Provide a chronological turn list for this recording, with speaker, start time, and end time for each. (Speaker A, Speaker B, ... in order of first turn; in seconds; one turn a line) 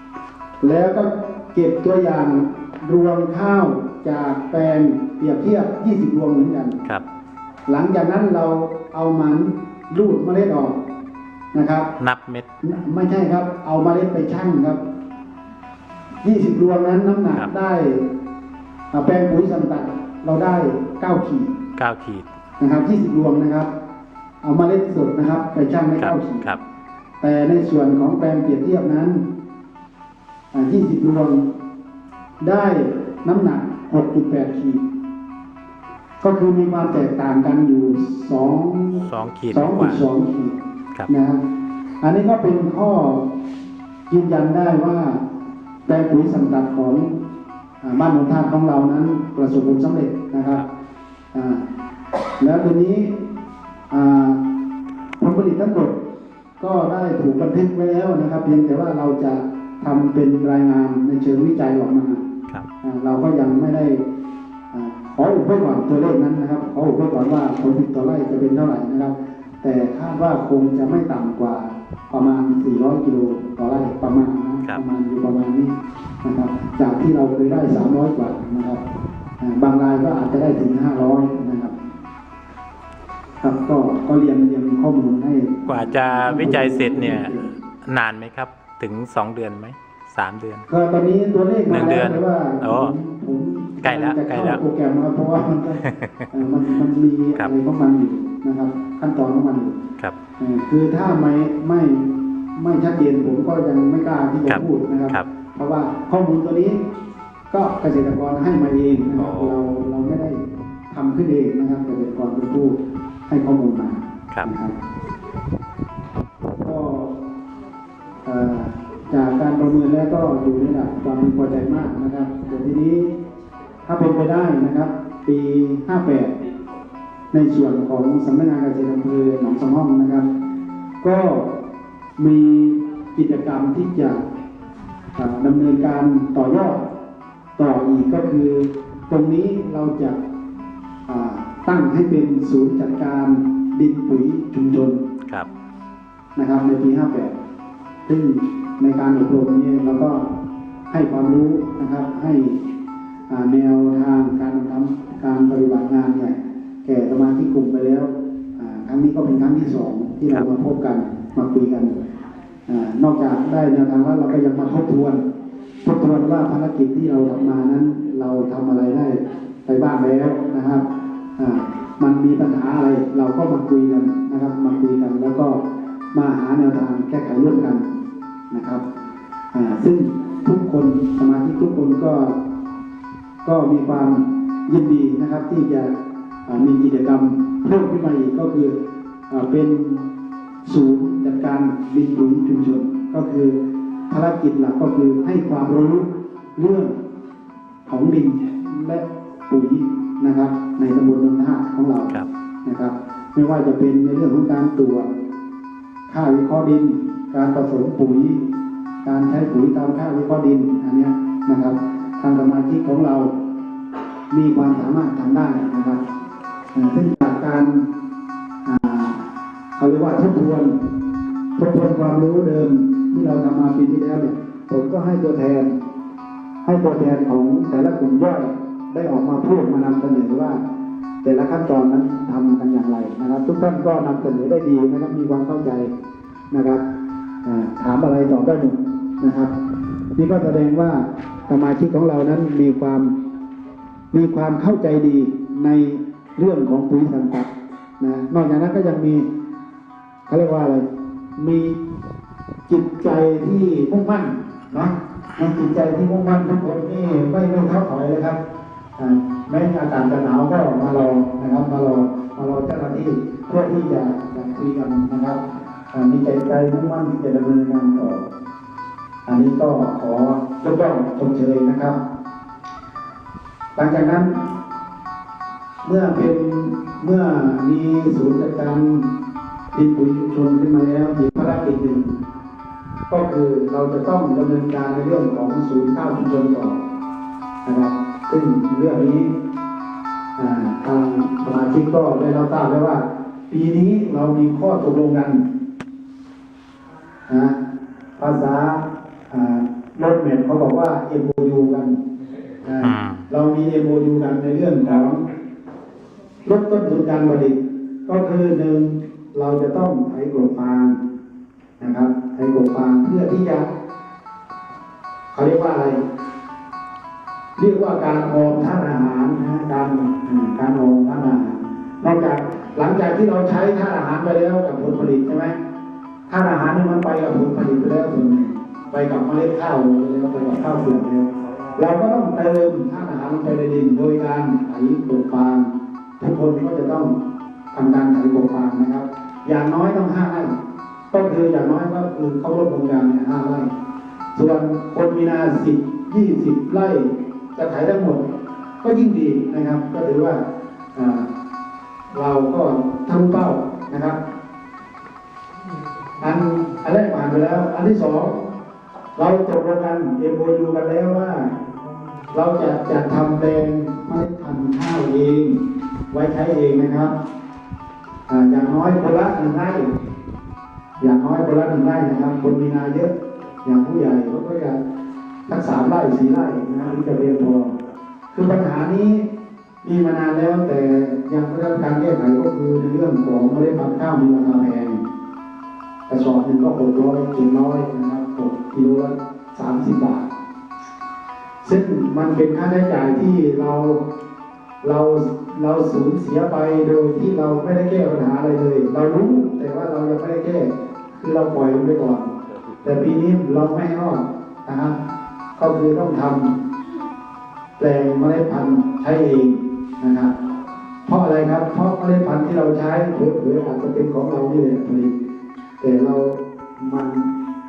Speaker A: 0.6-6.8
Speaker A: 7.7-10.8
Speaker A: 11.5-11.9
Speaker B: 12.0-12.5
Speaker A: 12.6-14.8
Speaker A: 16.2-18.1
Speaker A: 18.9-21.5
Speaker B: 21.8-22.3
Speaker A: 22.6-23.7
Speaker A: 24.4-26.5
Speaker B: 26.0-26.6
Speaker A: 27.2-29.2
Speaker A: 30.5-31.4
Speaker A: 32.4-34.8
Speaker A: 36.2-40.6
Speaker B: 39.0-40.0
Speaker A: 41.1-41.4
Speaker A: 42.0-43.3
Speaker A: 44.1-45.2
Speaker A: 45.9-47.1
Speaker A: 47.8-50.6
Speaker A: 51.3-51.6
Speaker A: 52.4-53.1
Speaker A: 53.9-54.4
Speaker A: 55.2-55.9
Speaker A: 56.6-62.2
Speaker A: 62.8-64.0
Speaker A: 64.7-78.8
Speaker A: 79.4-81.7
Speaker A: 83.4-87.5
Speaker B: 85.7-90.7
Speaker A: 90.7-99.7
Speaker B: 91.7-92.9
Speaker B: 93.8-94.6
Speaker B: 95.8-96.3
Speaker A: 100.4-106.8
Speaker B: 104.5-105.3
Speaker A: 107.5-112.8
Speaker B: 109.2-109.5
Speaker A: 113.3-114.7
Speaker A: 116.6-117.1
Speaker A: 118.2-123.1
Speaker A: 123.9-126.3
Speaker A: 127.3-130.3
Speaker A: 131.0-131.5
Speaker A: 132.2-134.2
Speaker A: 135.2-136.9
Speaker A: 137.6-140.2
Speaker A: 141.1-145.0
Speaker A: 146.4-147.3
Speaker A: 148.1-150.2
Speaker A: 150.9-152.6
Speaker A: 153.3-162.0
Speaker A: 162.7-165.2
Speaker A: 165.8-170.8
Speaker A: 171.4-175.6
Speaker A: 176.1-177.9
Speaker A: 178.5-178.8
Speaker A: 179.5-182.3
Speaker A: 183.4-185.9
Speaker A: 186.5-188.7
Speaker A: 189.3-190.1
Speaker A: 190.7-193.6
Speaker A: 194.1-196.9
Speaker A: 197.9-202.1
Speaker A: 202.7-205.1
Speaker A: 206.1-208.4
Speaker A: 209.0-213.3
Speaker A: 214.3-216.0
Speaker A: 216.7-217.9
Speaker A: 218.7-219.2
Speaker A: 219.8-220.7
Speaker A: 221.6-225.7
Speaker A: 226.6-230.6
Speaker A: 231.2-235.9
Speaker A: 236.5-236.8
Speaker A: 237.4-239.5
Speaker A: 240.2-243.1
Speaker A: 244.1-249.2
Speaker A: 250.3-250.8
Speaker A: 251.4-251.8
Speaker A: 252.7-258.4
Speaker A: 259.0-265.4
Speaker A: 265.9-268.3
Speaker A: 269.3-272.0
Speaker A: 273.8-274.4
Speaker A: 275.8-279.1
Speaker A: 279.7-282.2
Speaker A: 283.1-286.8
Speaker A: 287.6-289.3
Speaker A: 290.4-295.4
Speaker A: 297.3-297.6
Speaker A: 298.2-302.0
Speaker A: 302.6-305.2
Speaker B: 302.8-303.3
Speaker A: 306.4-310.9
Speaker A: 311.8-313.7
Speaker A: 315.3-316.0
Speaker A: 317.6-325.6
Speaker A: 326.3-335.7
Speaker A: 336.2-337.2
Speaker A: 337.7-340.5
Speaker A: 341.1-343.7
Speaker A: 344.4-348.2
Speaker A: 348.8-350.4
Speaker A: 350.9-351.3
Speaker A: 352.1-354.2
Speaker A: 356.2-358.4
Speaker A: 359.2-361.6
Speaker A: 362.3-365.6
Speaker A: 366.1-367.1
Speaker A: 368.3-369.9
Speaker A: 371.0-373.1
Speaker A: 373.6-374.8
Speaker A: 375.5-377.8
Speaker A: 378.3-379.2
Speaker A: 379.8-385.0
Speaker A: 386.1-390.3
Speaker A: 391.6-394.0
Speaker A: 394.8-402.3
Speaker A: 402.8-405.0
Speaker A: 405.6-406.6
Speaker A: 407.8-410.3
Speaker A: 411.1-415.1
Speaker A: 415.8-417.3